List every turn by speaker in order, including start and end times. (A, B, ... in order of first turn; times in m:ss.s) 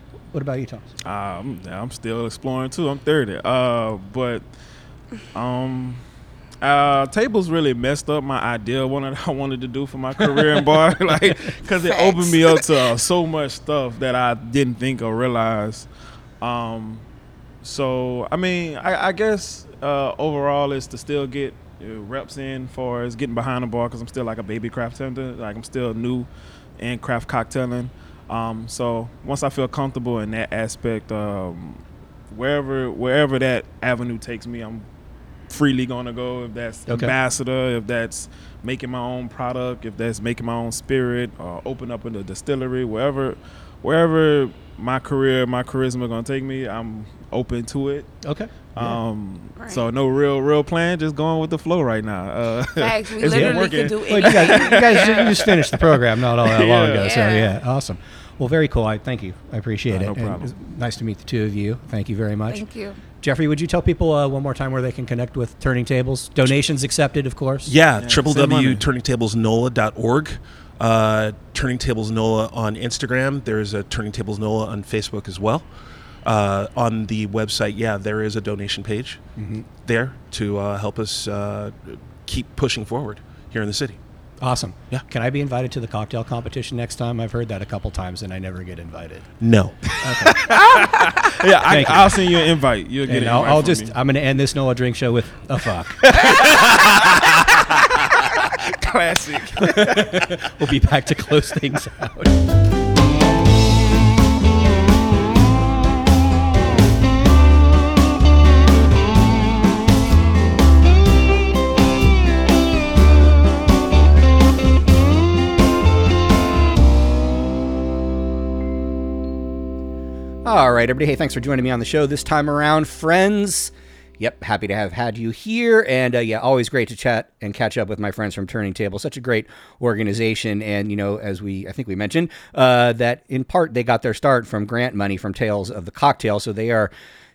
0:00.3-0:00.9 A
0:01.0-0:04.5 B
0:05.3-0:06.0 B
0:06.6-0:15.9 B
0:11.9-0:12.6 C
0:16.4-0:17.0 B
0:17.6-0:34.9 B
0:35.5-0:48.2 B
0:36.9-0:37.1 A
0:48.2-0:49.0 A
0:48.7-0:57.1 B
0:49.6-0:49.8 C
0:52.8-0:55.3 C
0:53.2-1:02.6 A
0:57.0-0:57.6 C
0:59.9-1:00.5 B
1:02.5-1:03.0 C
1:03.2-1:07.8 A
1:07.7-1:15.7 D
1:08.0-1:08.9 B
1:16.2-1:19.2 D
1:19.4-1:19.7 A
1:19.8-1:24.0 D
1:24.4-1:29.3 A
1:29.4-1:30.1 D
1:30.0-1:30.3 A
1:30.6-1:33.9 B
1:31.7-1:32.1 A
1:33.0-1:37.0 A
1:36.1-1:40.4 B
1:39.6-1:42.4 A
2:00.4-2:16.9 A